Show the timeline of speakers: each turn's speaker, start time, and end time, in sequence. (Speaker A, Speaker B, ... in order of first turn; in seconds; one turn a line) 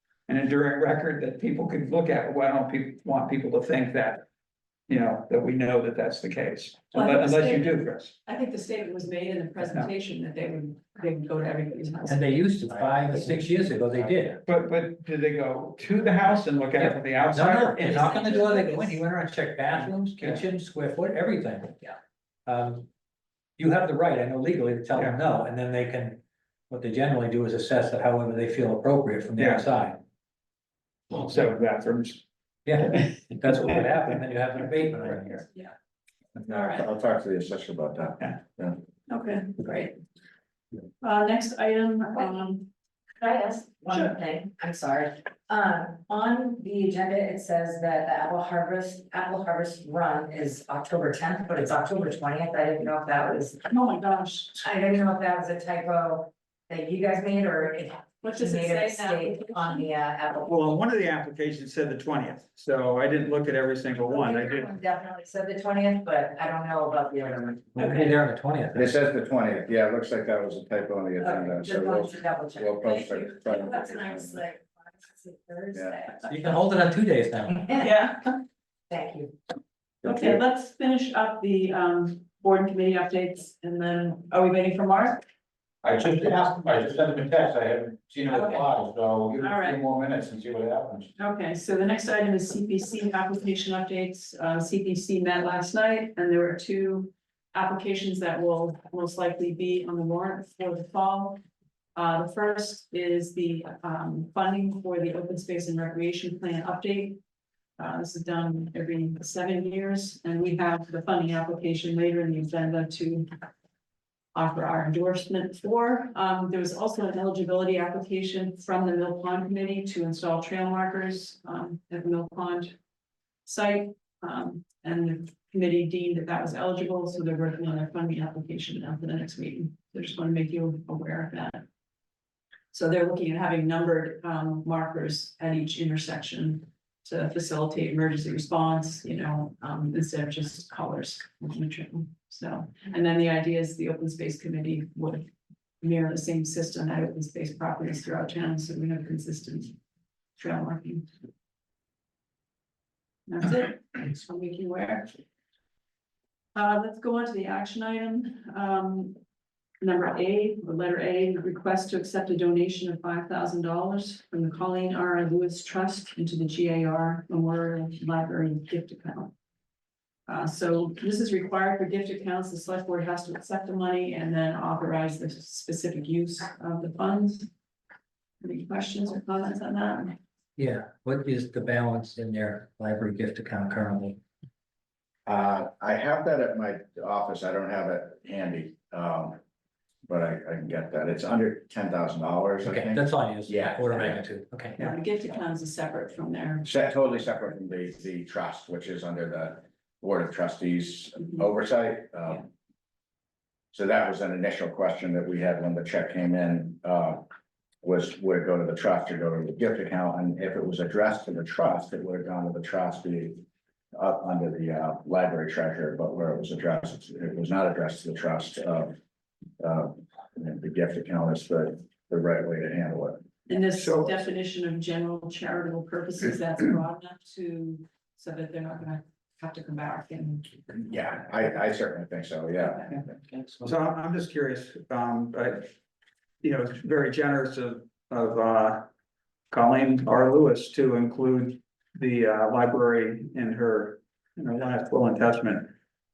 Speaker A: 0.3-4.2
Speaker A: 4.9-8.1
Speaker B: 6.9-12.5
Speaker A: 9.6-9.9
Speaker C: 12.1-14.4
Speaker A: 14.4-18.5
Speaker C: 16.8-21.9
Speaker B: 17.8-19.0
Speaker A: 20.2-20.4
Speaker C: 22.4-22.9
Speaker C: 23.6-30.0
Speaker A: 29.4-29.6
Speaker A: 31.1-32.2
Speaker C: 32.6-35.4
Speaker B: 35.4-35.7
Speaker B: 36.4-36.9
Speaker D: 36.6-38.8
Speaker B: 39.1-40.0
Speaker B: 41.0-42.7
Speaker E: 43.2-53.6
Speaker B: 53.7-54.7
Speaker E: 54.6-60.7
Speaker B: 58.2-59.9
Speaker A: 60.5-64.7
Speaker E: 64.1-68.1
Speaker C: 67.8-69.0
Speaker D: 68.7-74.4
Speaker E: 71.2-76.6
Speaker D: 75.7-76.0
Speaker C: 76.2-77.8
Speaker B: 77.8-78.3
Speaker E: 78.9-79.3
Speaker B: 80.0-85.2
Speaker F: 85.8-91.1
Speaker B: 88.3-88.8
Speaker B: 89.3-89.9
Speaker B: 91.2-101.4
Speaker B: 102.0-107.2
Speaker B: 107.8-113.3
Speaker B: 114.3-122.7
Speaker B: 123.4-131.6
Speaker B: 132.7-145.3
Speaker B: 145.8-149.8
Speaker B: 150.4-151.1
Speaker B: 153.3-155.2
Speaker B: 156.5-159.2
Speaker B: 159.8-169.3
Speaker B: 170.3-177.5
Speaker B: 178.4-180.2
Speaker C: 180.6-184.2
Speaker D: 185.2-189.4
Speaker D: 190.1-194.2
Speaker C: 192.6-194.8
Speaker B: 194.8-196.7
Speaker D: 196.6-202.4
Speaker D: 203.7-207.2
Speaker D: 207.8-213.4
Speaker D: 213.9-218.9
Speaker D: 219.6-223.2
Speaker B: 223.4-230.8
Speaker A: 223.8-224.2
Speaker D: 230.8-233.2
Speaker B: 232.6-233.0
Speaker C: 233.3-233.7
Speaker A: 233.6-235.7
Speaker A: 236.4-238.9
Speaker A: 239.5-245.7